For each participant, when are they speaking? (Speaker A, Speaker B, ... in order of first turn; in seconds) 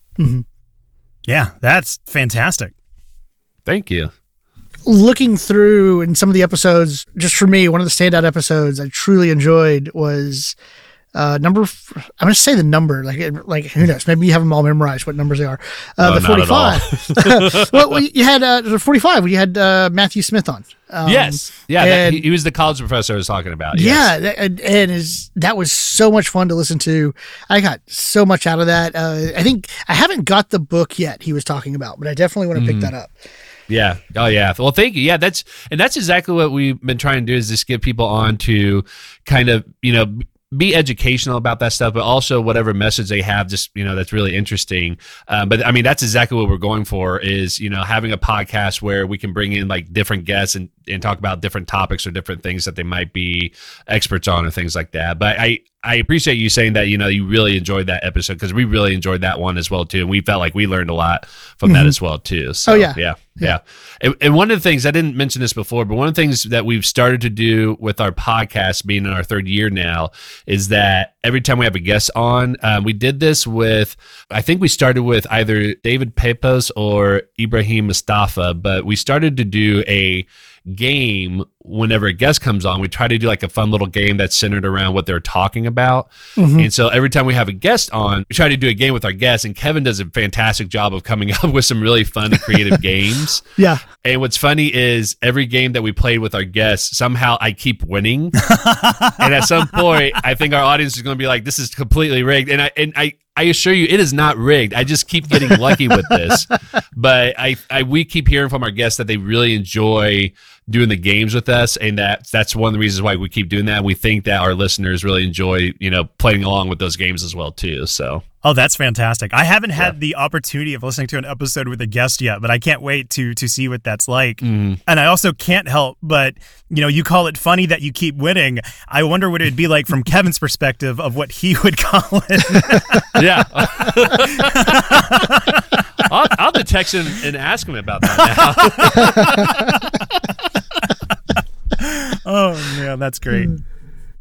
Speaker A: 0.2-0.5, 4.8-10.6, 11.1-22.3, 23.7-33.1, 61.6-62.0, 62.6-63.6, 86.4-86.7, 139.0-139.5
Speaker B: 1.3-2.7, 98.5-99.2, 118.4-133.2, 134.2-136.1, 138.8-140.0, 141.8-143.6
Speaker C: 3.7-4.1, 16.0-18.0, 21.1-24.1, 32.5-32.9, 33.7-93.5, 94.0-98.4, 99.1-118.2, 124.4-124.8, 133.1-135.1, 136.0-139.6